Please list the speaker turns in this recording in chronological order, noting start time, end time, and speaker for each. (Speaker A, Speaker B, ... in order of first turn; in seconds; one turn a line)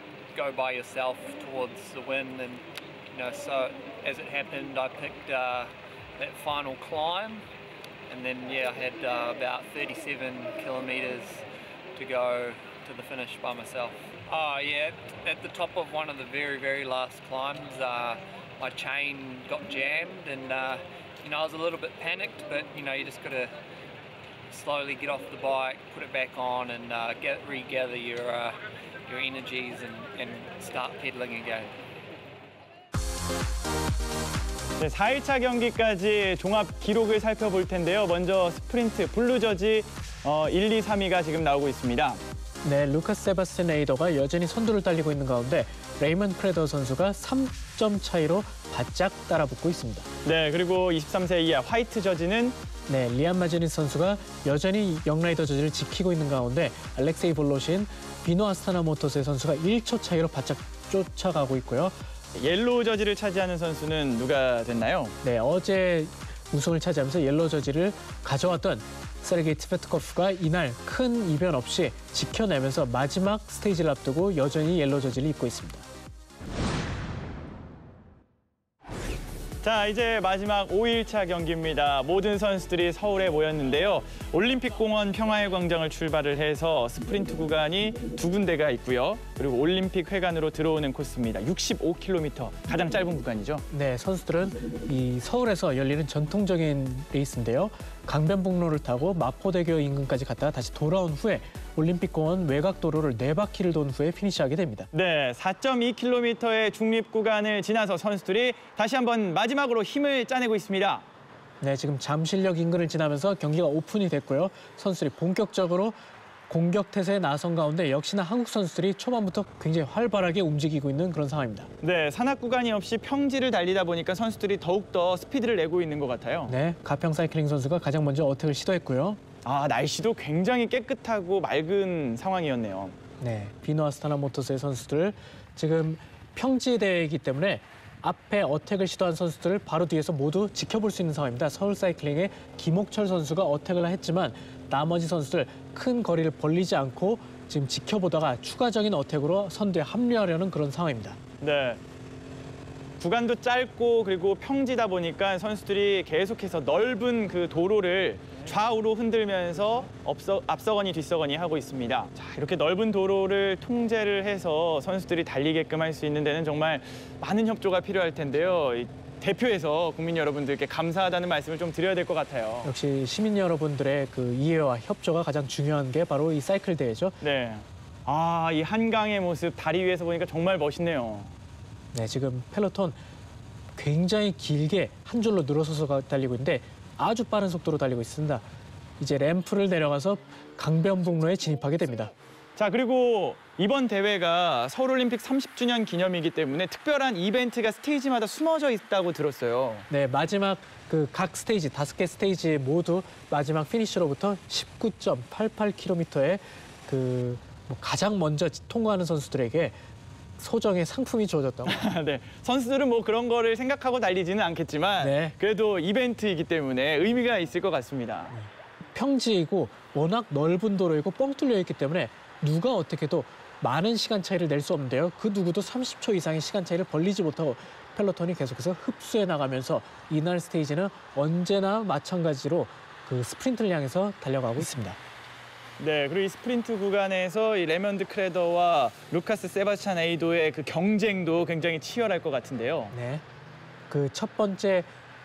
Speaker A: 0.3-7.5
Speaker A: 8.1-11.4
Speaker A: 11.9-23.5
Speaker A: 24.5-31.8
Speaker B: 34.8-42.2
Speaker C: 42.6-50.1
Speaker B: 50.2-52.6
Speaker C: 52.9-62.0
Speaker B: 62.4-65.2
Speaker C: 65.2-75.9
Speaker B: 79.6-93.7
Speaker C: 93.7-104.9
Speaker B: 104.9-111.0
Speaker C: 111.6-121.7
Speaker B: 121.8-126.5
Speaker C: 126.5-129.2
Speaker B: 129.4-133.0
Speaker C: 133.2-151.2
Speaker B: 151.4-151.8
Speaker B: 153.0-172.7
Speaker C: 172.6-177.2
Speaker B: 177.2-181.3
Speaker C: 181.9-183.0
Speaker C: 183.8-188.5
Speaker C: 189.0-192.1
Speaker B: 192.6-199.9
Speaker C: 199.9-209.8
Speaker C: 210.4-211.8
Speaker B: 211.7-218.3
Speaker C: 215.0-215.3
Speaker C: 218.3-235.0
Speaker B: 235.8-242.9
Speaker C: 242.9-243.2
Speaker C: 243.9-244.9